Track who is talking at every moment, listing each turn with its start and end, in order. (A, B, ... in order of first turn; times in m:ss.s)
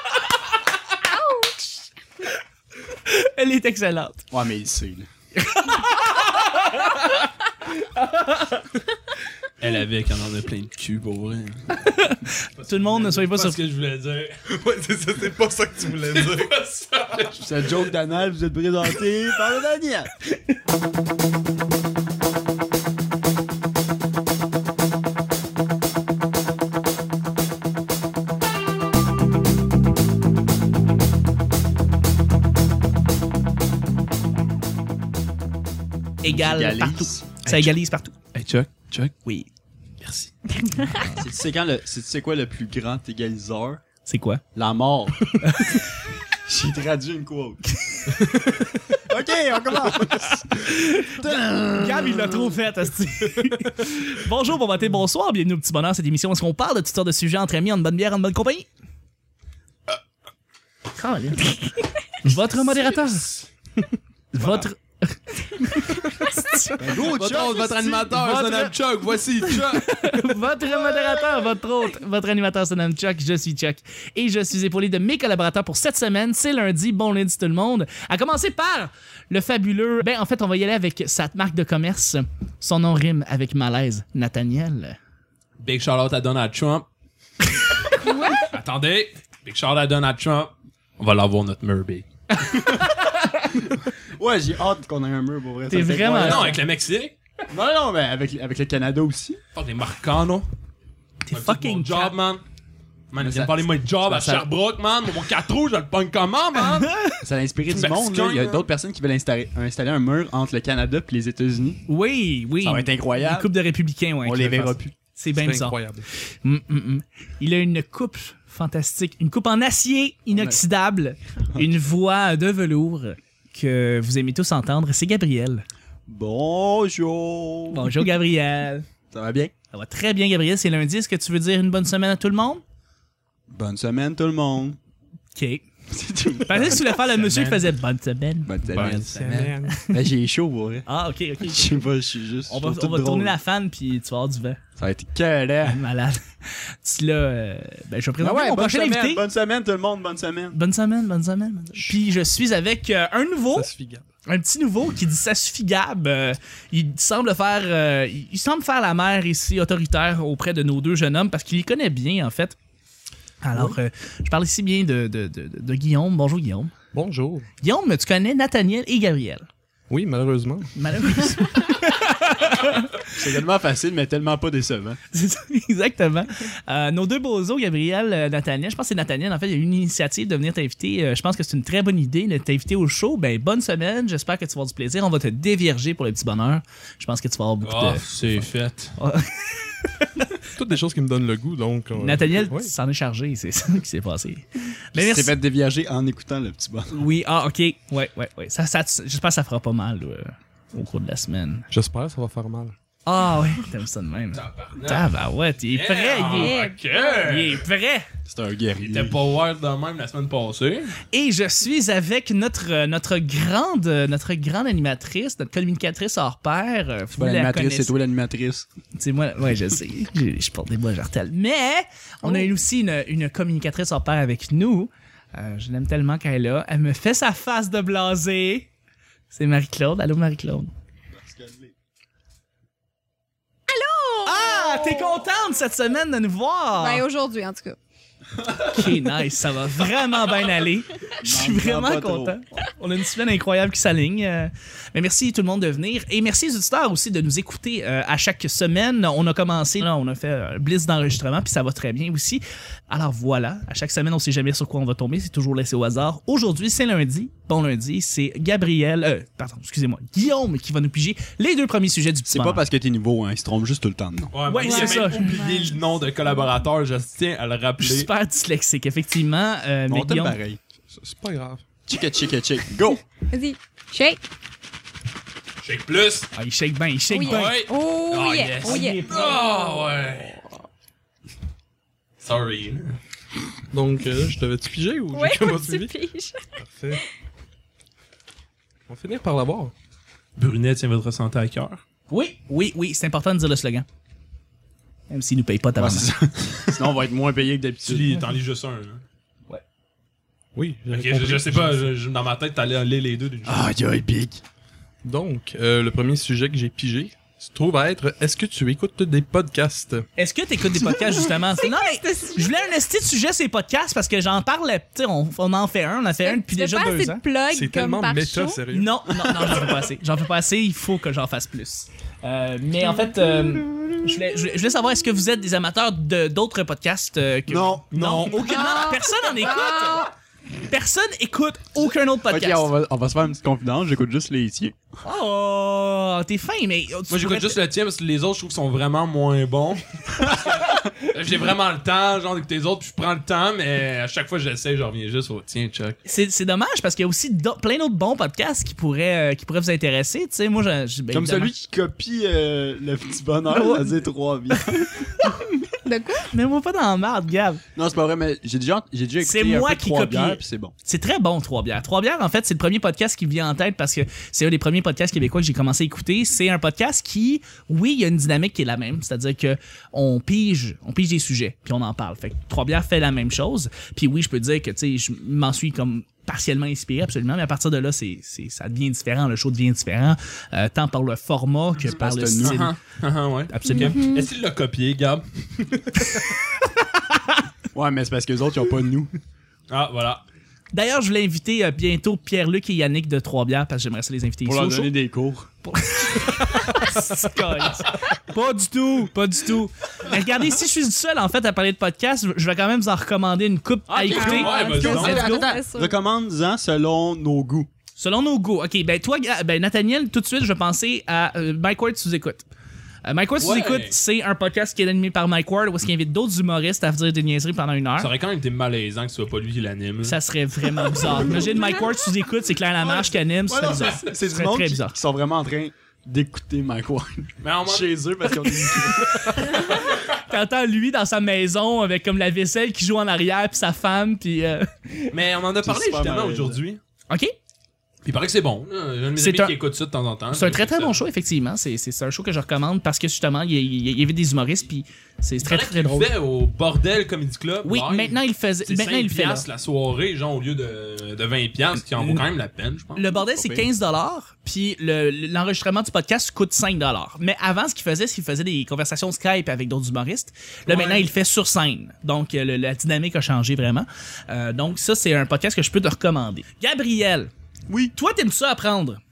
0:01.0-0:01.8 A
0:03.0-0:04.3 B
0:04.3-0:05.1 C
0:05.4-0:08.6 B
0:09.6-0:11.8 D
0:11.8-0:13.6 B
0:12.6-0:14.4 D
0:14.5-0:16.5 E
0:16.1-0:17.9 D
0:17.4-0:20.1 C
0:36.2-0:38.1 B
0:36.2-0:37.4 C
0:37.4-0:37.7 D
0:38.3-0:39.1 D
0:40.0-0:40.3 D
0:40.7-0:41.1 A
0:41.1-0:43.8 C
0:44.0-0:44.4 B
0:44.5-0:45.8 C
0:45.4-0:45.8 B
0:46.4-0:48.3 C
0:48.2-0:48.7 E
0:48.9-0:52.5 C
0:50.6-0:58.7 B
1:01.0-1:03.3 B
1:02.2-1:03.4 D
1:04.3-1:06.8 B
1:06.8-1:08.7 C
1:07.0-1:10.2 D
1:09.7-1:25.0 B
1:25.6-1:26.9 D
1:28.0-1:28.3 B
1:28.0-1:28.5 A
1:28.4-1:32.1 D
1:32.8-1:33.5 B
1:34.2-1:36.6 C
1:35.7-1:36.6 B
1:36.2-1:37.1 D
1:37.5-1:39.4 C
1:39.5-1:40.5 D
1:41.3-1:42.1 B
1:41.3-1:42.4 D
1:43.1-1:47.0 D
1:43.2-1:44.5 C
1:46.6-1:47.2 B
1:47.2-1:51.8 C
1:47.7-1:48.7 D
1:51.9-2:05.6 B
1:52.6-1:53.6 C
1:54.2-1:54.9 C
1:55.3-1:56.1 E
2:00.3-2:00.6 C
2:06.1-2:08.0 C
2:07.7-2:08.8 B
2:09.1-2:09.5 C
2:09.7-2:12.6 B
2:13.5-2:14.8 C
2:15.3-2:15.7 B
2:15.9-2:16.9 C
2:16.4-2:18.5 B
2:17.1-2:17.7 D
2:18.4-2:19.2 C
2:18.7-2:19.6 D
2:18.8-2:19.8 E
2:19.7-2:20.0 B
2:19.9-2:20.9 C
2:20.9-2:21.9 B
2:21.4-2:23.3 C
2:22.5-2:24.6 B
2:24.8-2:25.8 C
2:25.6-2:29.2 B
2:28.2-2:30.6 C
2:30.5-2:33.7 B
2:33.5-2:34.0 E
2:34.2-2:42.6 B
2:43.4-2:46.7 B
2:46.9-2:47.5 E
2:47.6-2:49.5 B
2:49.9-2:51.2 E
2:50.8-2:53.1 B
2:53.1-2:55.0 C
2:55.1-3:08.4 B
3:07.6-3:08.9 D
3:09.0-3:10.3 B
3:10.5-3:12.7 E
3:12.0-3:15.4 B
3:14.9-3:17.0 C
3:16.9-3:21.7 B
3:21.7-3:22.8 E
3:23.0-3:26.6 B
3:24.3-3:25.1 D
3:25.7-3:27.6 D
3:26.3-3:27.3 A
3:27.2-3:28.1 B
3:28.2-3:29.2 C
3:28.8-3:30.9 D
3:31.1-3:37.9 B
3:37.1-3:38.7 C
3:38.9-3:48.7 B
3:49.3-3:50.7 B
3:51.1-3:51.7 C
3:53.7-3:55.2 A
3:54.2-3:57.0 B
3:56.7-3:57.8 A
3:58.6-4:22.6 B
4:01.2-4:02.4 C
4:22.3-4:24.3 C
4:24.3-4:28.1 D
4:24.5-4:25.4 B
4:24.6-4:25.9 A
4:27.8-4:30.4 B
4:29.9-4:30.6 C
4:30.9-4:31.6 E
4:31.9-4:33.0 C
4:33.3-4:34.2 A
4:35.6-4:36.3 D
4:36.3-4:37.6 B
4:37.1-4:39.0 A
4:37.2-4:40.4 D
4:38.6-4:39.6 B
4:42.2-4:43.0 D
4:43.7-4:45.9 E
4:45.1-4:46.4 A
4:46.6-4:47.0 E
4:48.9-4:49.7 E
4:50.4-4:51.8 D
4:52.1-4:53.8 B
4:55.1-4:56.1 B
4:55.8-4:58.1 C
4:57.8-4:59.0 D
5:00.5-5:01.9 E
5:00.9-5:03.7 D
5:03.4-5:04.4 C
5:05.0-5:10.0 E
5:10.2-5:17.2 B
5:11.6-5:12.6 A
5:16.2-5:18.6 A
5:17.5-5:18.9 E
5:18.7-5:30.1 B
5:27.5-5:27.8 C
5:27.9-5:28.9 D
5:28.4-5:30.1 A
5:30.7-5:32.7 B
5:32.3-5:34.8 C
5:35.0-5:37.6 B
5:37.1-5:46.0 D
5:46.0-5:51.5 B
5:51.1-5:55.4 C
5:53.5-5:53.9 B
5:54.7-5:55.3 B
5:55.8-5:56.3 A
5:56.3-5:57.6 B
5:57.7-6:00.7 C
5:59.2-6:22.8 B
6:21.8-6:22.6 C
6:22.4-6:25.7 D
6:23.5-6:24.0 B
6:23.6-6:24.3 A
6:27.7-6:29.1 C
6:29.7-6:30.2 D
6:30.7-6:34.9 B
6:34.4-6:35.5 C
6:35.6-6:45.6 B
6:43.9-6:45.2 D
6:44.1-6:47.7 C
6:44.2-6:46.0 A
6:48.0-6:52.5 B
6:53.0-6:58.1 B
6:53.4-6:54.0 D
6:58.0-7:00.2 D
7:00.0-7:04.9 B
7:02.8-7:09.6 C
7:07.4-7:08.0 D
7:09.0-7:09.7 B
7:10.3-7:15.1 B
7:15.1-7:16.8 D
7:15.6-7:16.6 C
7:18.0-7:21.0 D
7:19.2-7:19.6 B
7:20.3-7:26.1 B
7:25.4-7:33.0 D
7:27.6-7:29.4 B
7:32.0-7:32.2 B
7:33.0-7:47.3 B
7:33.1-7:33.6 C
7:40.7-7:41.0 C
7:47.9-7:49.0 B